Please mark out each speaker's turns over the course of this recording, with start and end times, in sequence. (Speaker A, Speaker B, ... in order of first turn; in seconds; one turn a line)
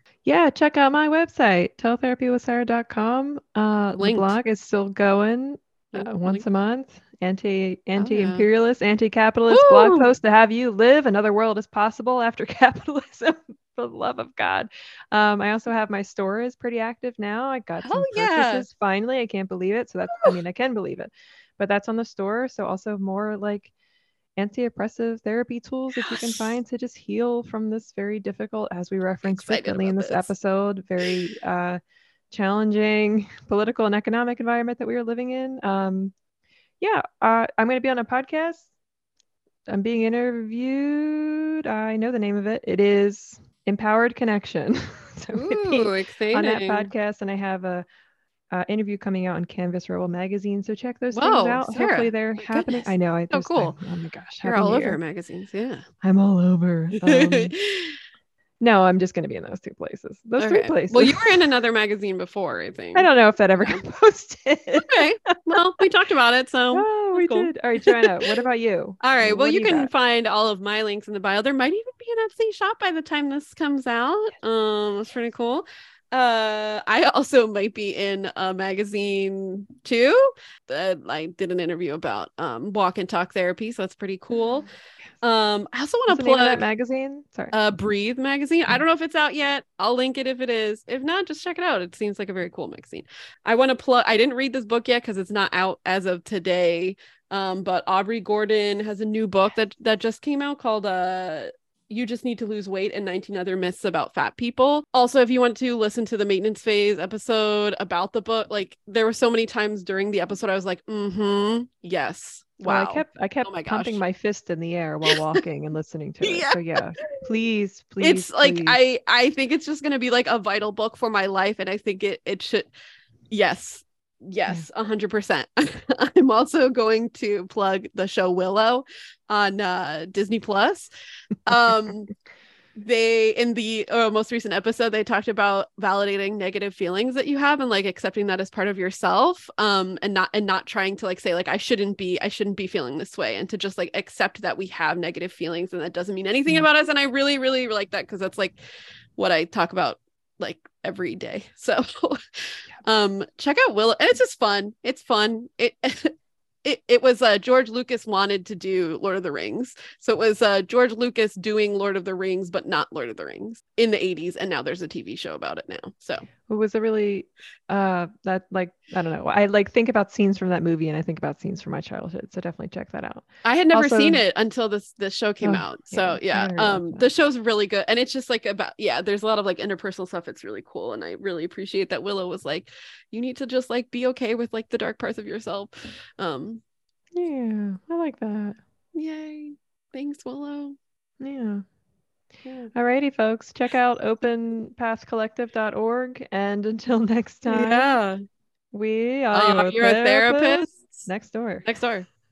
Speaker A: 0.2-23.7
Speaker B: 4.0-4.3
Speaker B: 5.9-6.5
Speaker B: 8.0-8.4
Speaker B: 9.5-10.1
Speaker B: 17.8-18.6
Speaker A: 24.4-31.8
Speaker B: 25.9-26.4
Speaker B: 29.3-30.3
Speaker A: 32.3-36.1
Speaker A: 36.8-38.6
Speaker A: 39.7-47.9
Speaker B: 45.3-46.9
Speaker A: 48.5-55.0
Speaker B: 51.1-53.8
Speaker B: 54.4-55.9
Speaker A: 56.0-57.5
Speaker B: 57.0-58.0
Speaker A: 58.6-61.5
Speaker B: 60.4-63.8
Speaker A: 62.9-65.4
Speaker B: 64.9-68.2
Speaker A: 66.7-69.9
Speaker B: 69.0-84.7
Speaker B: 85.2-86.6
Speaker A: 86.1-87.5
Speaker B: 87.5-114.0
Speaker A: 112.6-118.8
Speaker B: 116.2-117.0
Speaker B: 118.0-122.7
Speaker B: 123.3-130.9
Speaker B: 131.4-132.1
Speaker B: 132.7-148.6
Speaker B: 149.2-166.2
Speaker A: 166.5-174.2
Speaker B: 173.4-186.6
Speaker A: 175.4-177.1
Speaker A: 187.1-188.6
Speaker B: 188.9-190.8
Speaker A: 191.2-191.6
Speaker B: 192.4-192.7
Speaker A: 192.7-197.9
Speaker B: 197.4-198.2
Speaker A: 198.7-201.7
Speaker B: 199.3-200.9
Speaker B: 201.6-202.1